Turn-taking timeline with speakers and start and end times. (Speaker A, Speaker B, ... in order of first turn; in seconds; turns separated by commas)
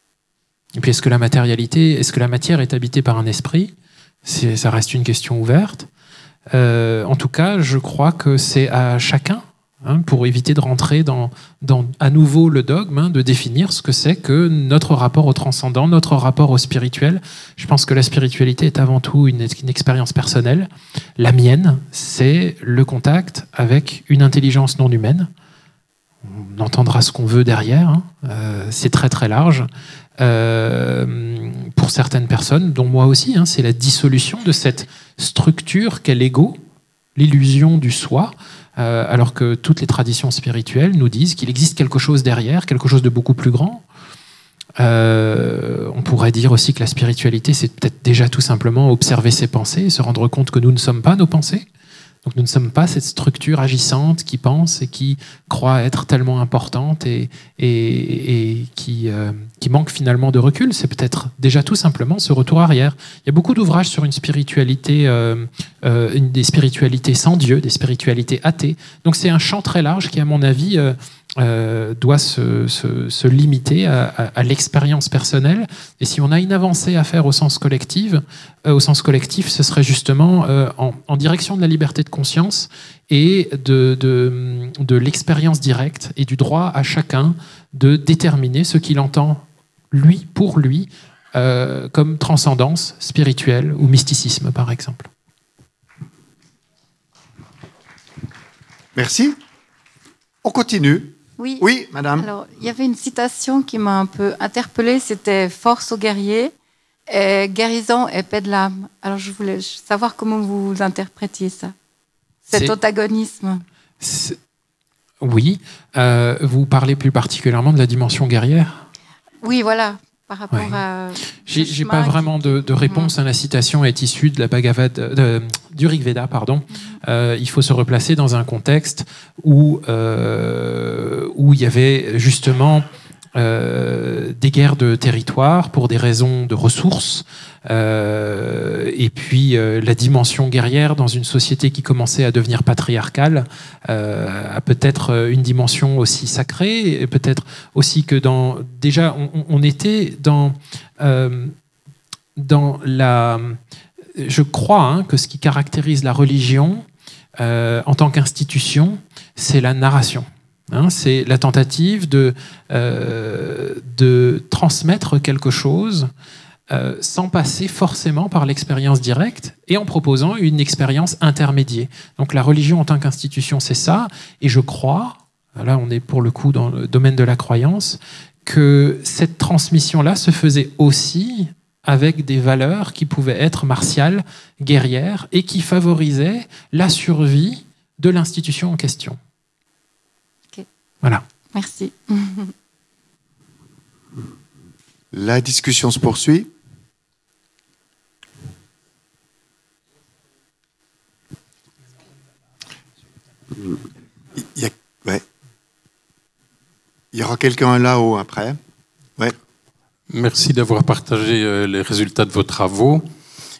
Speaker A: 0.8-3.7, Speaker A: 4.2-5.9, Speaker A: 6.5-25.3, Speaker A: 26.2-29.7, Speaker A: 30.2-36.6, Speaker A: 37.2-43.9, Speaker A: 44.8-51.7, Speaker A: 52.2-95.1, Speaker B: 99.0-99.4, Speaker B: 100.4-102.3, Speaker C: 101.4-106.5, Speaker C: 107.1-111.7, Speaker A: 112.5-112.8, Speaker C: 112.5-113.6, Speaker A: 114.0-114.4, Speaker A: 115.2-118.8, Speaker C: 119.4-123.1, Speaker A: 120.5-120.8, Speaker A: 121.5-151.6, Speaker A: 152.4-153.6, Speaker A: 154.2-156.8, Speaker A: 157.4-166.1, Speaker A: 166.7-189.2, Speaker C: 191.5-192.5, Speaker B: 195.1-196.5, Speaker B: 204.6-205.2, Speaker B: 207.1-208.6, Speaker D: 210.1-213.1